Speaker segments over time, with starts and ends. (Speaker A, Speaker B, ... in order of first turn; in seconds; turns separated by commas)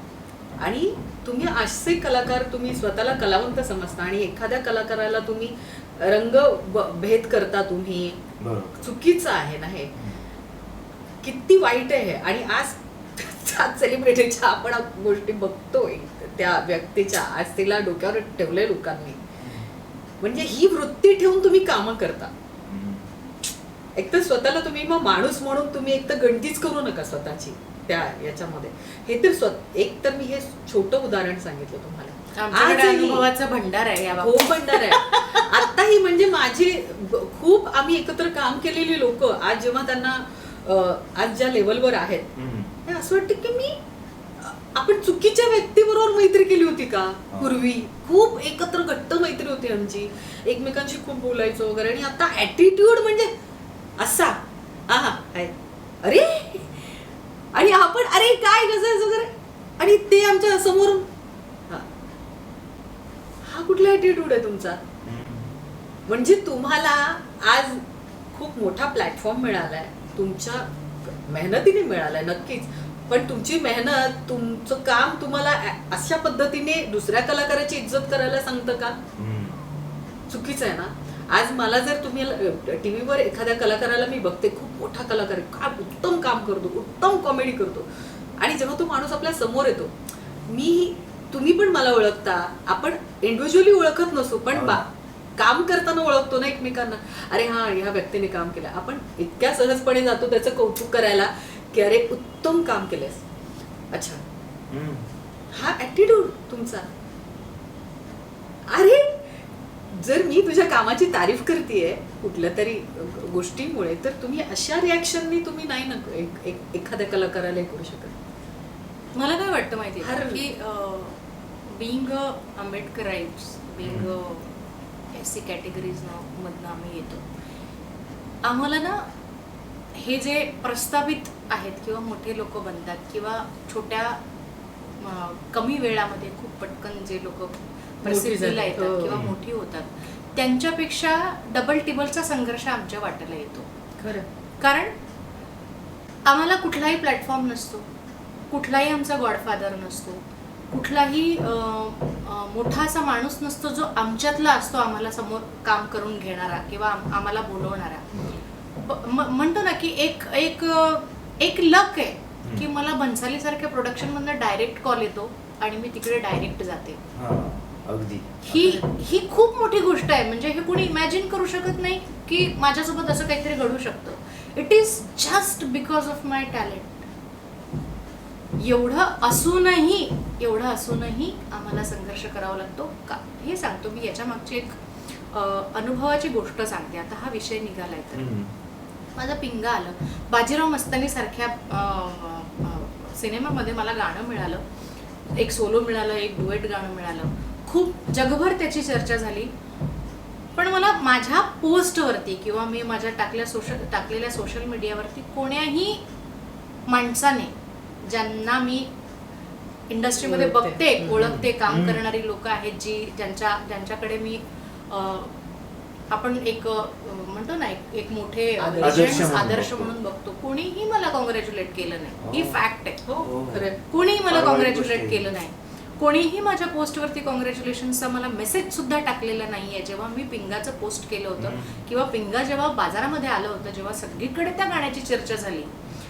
Speaker A: 0.6-8.2, Speaker B: 8.4-8.9, Speaker A: 8.8-10.0, Speaker A: 11.2-19.2, Speaker B: 19.4-19.7, Speaker A: 20.2-22.3, Speaker B: 22.7-23.1, Speaker A: 24.0-33.3, Speaker C: 32.4-35.5, Speaker A: 34.1-42.3, Speaker B: 42.4-42.7, Speaker A: 42.9-43.8, Speaker A: 44.4-53.3, Speaker B: 47.3-47.6, Speaker A: 54.0-55.5, Speaker A: 56.0-61.1, Speaker A: 63.5-64.8, Speaker B: 65.0-65.5, Speaker A: 66.1-79.0, Speaker B: 79.2-79.6, Speaker A: 80.3-87.9, Speaker A: 88.4-89.9, Speaker A: 90.5-94.9, Speaker B: 94.5-94.9, Speaker A: 95.4-103.2, Speaker A: 103.9-104.2, Speaker B: 104.7-105.1, Speaker A: 105.5-106.9, Speaker A: 108.7-109.3, Speaker A: 109.9-118.1, Speaker C: 119.2-121.2, Speaker A: 120.0-120.4, Speaker C: 121.7-124.6, Speaker B: 123.8-124.1, Speaker C: 125.1-127.2, Speaker C: 128.4-129.1, Speaker C: 129.9-134.2, Speaker C: 135.0-143.7, Speaker A: 138.1-139.2, Speaker B: 139.1-139.4, Speaker A: 144.0-144.3, Speaker C: 144.6-144.9, Speaker C: 146.3-147.9, Speaker C: 148.5-158.1, Speaker B: 158.1-158.4, Speaker C: 158.8-167.0, Speaker B: 167.2-168.8, Speaker C: 168.4-177.0, Speaker C: 178.6-188.3, Speaker B: 188.1-188.5, Speaker C: 189.2-194.6, Speaker C: 195.3-199.5, Speaker C: 200.6-206.0, Speaker C: 206.9-208.9, Speaker C: 209.9-215.3, Speaker A: 210.2-211.5, Speaker B: 211.6-212.0, Speaker C: 216.1-223.3, Speaker A: 218.6-219.5, Speaker B: 218.8-219.9, Speaker B: 222.2-222.6, Speaker A: 223.1-223.8, Speaker B: 223.2-223.7, Speaker C: 223.9-235.7, Speaker B: 224.2-225.3, Speaker B: 231.4-231.8